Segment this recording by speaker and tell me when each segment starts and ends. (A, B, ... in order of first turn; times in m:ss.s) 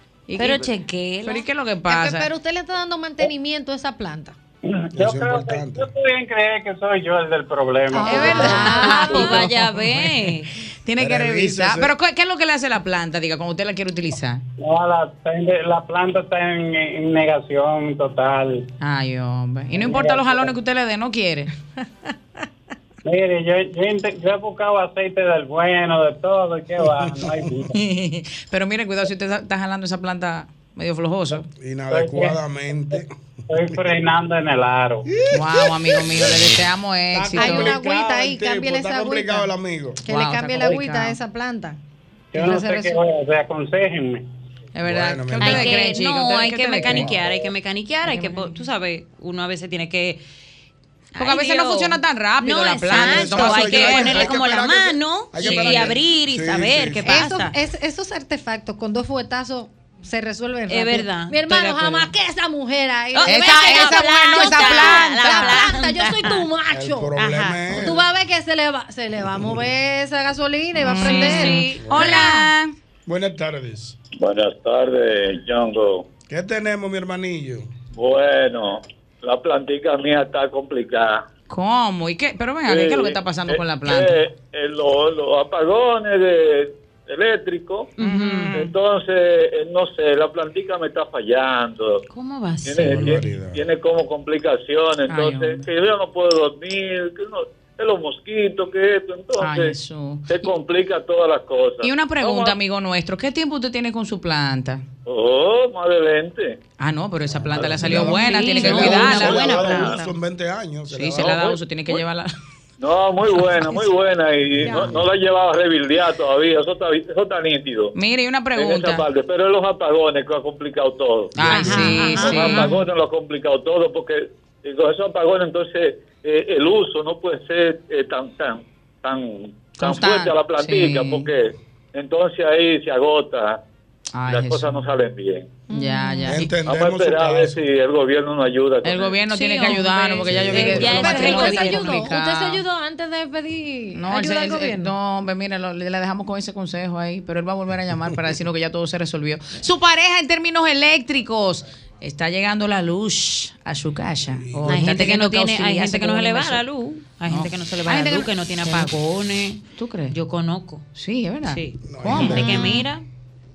0:00.3-0:00.7 A
0:00.4-0:01.4 B
0:01.2-0:02.3 A
0:01.9-0:04.4 C
0:04.7-0:08.7 D
0:04.9-0:05.9 E
0:07.9-0:09.5 C
0:08.0-0:10.2 A
0:08.1-0:10.5 B
0:10.8-0:14.4 A
0:11.0-0:11.9 E
0:14.6-0:18.7 D
0:18.8-0:21.5 A
0:19.7-0:20.6 D
0:23.0-0:27.7 D
0:27.0-0:27.4 E
0:27.7-0:31.5 A
0:31.6-0:33.2 E
0:31.9-0:32.4 D
0:33.5-0:35.1 D
0:35.1-0:36.6 E
0:35.3-0:37.8 A
0:37.1-0:40.0 E
0:37.4-0:39.5 C
0:40.0-0:41.8 C
0:40.1-0:41.2 A
0:42.3-0:43.0 C
0:42.3-0:44.2 D
0:44.8-0:47.1 A
0:44.8-0:45.8 E
0:45.4-0:50.2 B
0:48.1-0:48.5 A
0:51.1-0:57.6 B
0:51.2-0:54.4 A
0:52.9-0:57.1 E
0:55.4-0:55.8 A
0:57.0-1:11.7 C
1:00.7-1:02.1 B
1:03.1-1:06.5 B
1:03.3-1:05.6 A
1:06.7-1:08.0 E
1:07.2-1:08.0 B
1:10.8-1:12.7 A
1:11.0-1:12.4 B
1:11.8-1:12.2 E
1:13.1-1:14.0 E
1:14.2-1:16.1 F
1:16.3-1:17.7 E
1:17.9-1:21.2 F
1:21.5-1:24.2 A
1:22.7-1:27.9 F
1:28.0-1:28.6 B
1:28.0-1:28.7 A
1:28.6-1:32.0 F
1:32.1-1:33.2 B
1:32.6-1:39.8 F
1:32.8-1:33.6 E
1:35.1-1:35.6 A
1:39.4-1:40.3 A
1:40.3-1:42.6 F
1:41.8-1:44.8 A
1:45.1-1:46.6 F
1:46.8-1:49.8 A
1:47.3-1:51.4 E
1:47.9-1:50.0 B
1:50.9-1:52.3 A
1:51.2-1:52.0 F
1:52.8-1:57.9 F
1:54.6-1:54.9 C
1:57.9-1:59.0 A
1:58.6-2:13.6 F
2:01.4-2:02.7 A
2:01.5-2:02.6 B
2:01.9-2:02.2 C
2:09.8-2:11.3 A
2:14.1-2:14.8 A
2:14.3-2:15.6 F
2:15.7-2:16.4 C
2:15.7-2:16.4 A
2:16.3-2:17.6 E
2:16.6-2:19.2 F
2:18.8-2:22.6 A
2:19.3-2:22.1 B
2:20.2-2:21.0 E
2:20.8-2:24.9 C
2:24.0-2:36.6 A
2:34.3-2:34.9 E
2:34.7-2:40.8 B
2:37.3-2:38.9 A
2:39.8-2:40.2 A
2:41.0-2:42.6 A
2:41.5-2:43.0 B
2:41.8-2:42.7 E
2:42.4-2:42.7 C